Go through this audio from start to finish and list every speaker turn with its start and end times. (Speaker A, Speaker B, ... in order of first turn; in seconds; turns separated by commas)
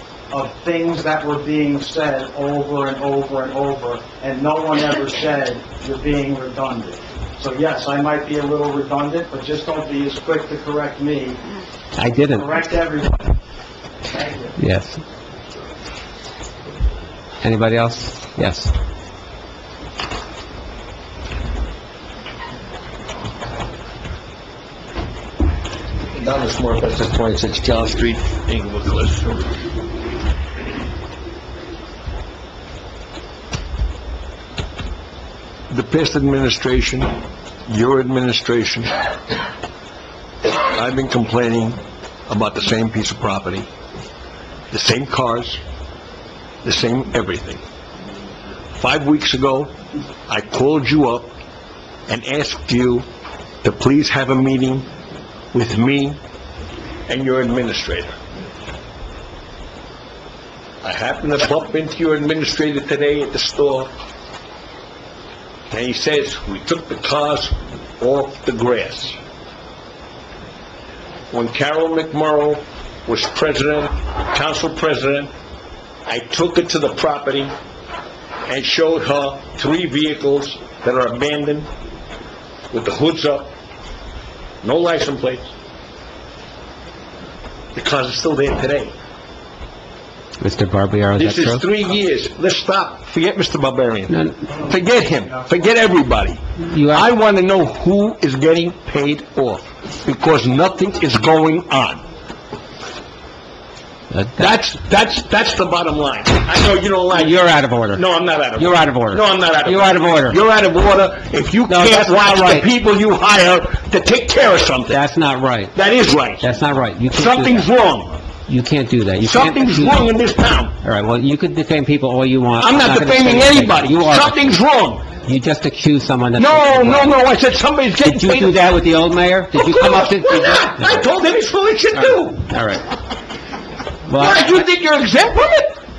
Speaker A: 0.3-11.4, Speaker B: 11.9-12.6, Speaker A: 12.3-13.4, Speaker A: 14.1-14.6, Speaker B: 14.6-15.0, Speaker B: 17.4-18.7, Speaker C: 26.1-29.4, Speaker C: 35.7-38.9, Speaker C: 40.5-43.7, Speaker C: 44.7-45.6, Speaker C: 46.6-47.6, Speaker C: 48.8-49.7, Speaker C: 50.3-51.3, Speaker C: 52.1-53.1, Speaker C: 53.6-54.9, Speaker C: 55.5-56.2, Speaker C: 57.1-58.1, Speaker C: 60.8-63.9, Speaker C: 65.7-69.2, Speaker C: 71.3-75.3, Speaker C: 76.0-77.5, Speaker C: 78.5-81.7, Speaker C: 82.7-83.5, Speaker C: 84.6-85.5, Speaker C: 87.7-88.9, Speaker B: 90.4-91.6, Speaker C: 91.2-102.0, Speaker B: 94.1-94.4, Speaker B: 96.7-97.1, Speaker B: 104.1-104.5, Speaker C: 104.4-107.3, Speaker B: 107.1-110.4, Speaker C: 107.9-115.0, Speaker B: 111.7-112.7, Speaker B: 114.9-115.8, Speaker C: 115.7-116.5, Speaker B: 116.4-117.7, Speaker C: 117.1-118.2, Speaker B: 118.5-120.0, Speaker C: 119.2-120.7, Speaker B: 120.8-124.4, Speaker C: 122.6-125.0, Speaker B: 125.2-127.2, Speaker C: 126.4-128.5, Speaker B: 128.0-131.0, Speaker C: 129.5-132.4, Speaker B: 131.9-132.8, Speaker B: 134.1-134.6, Speaker C: 134.2-135.8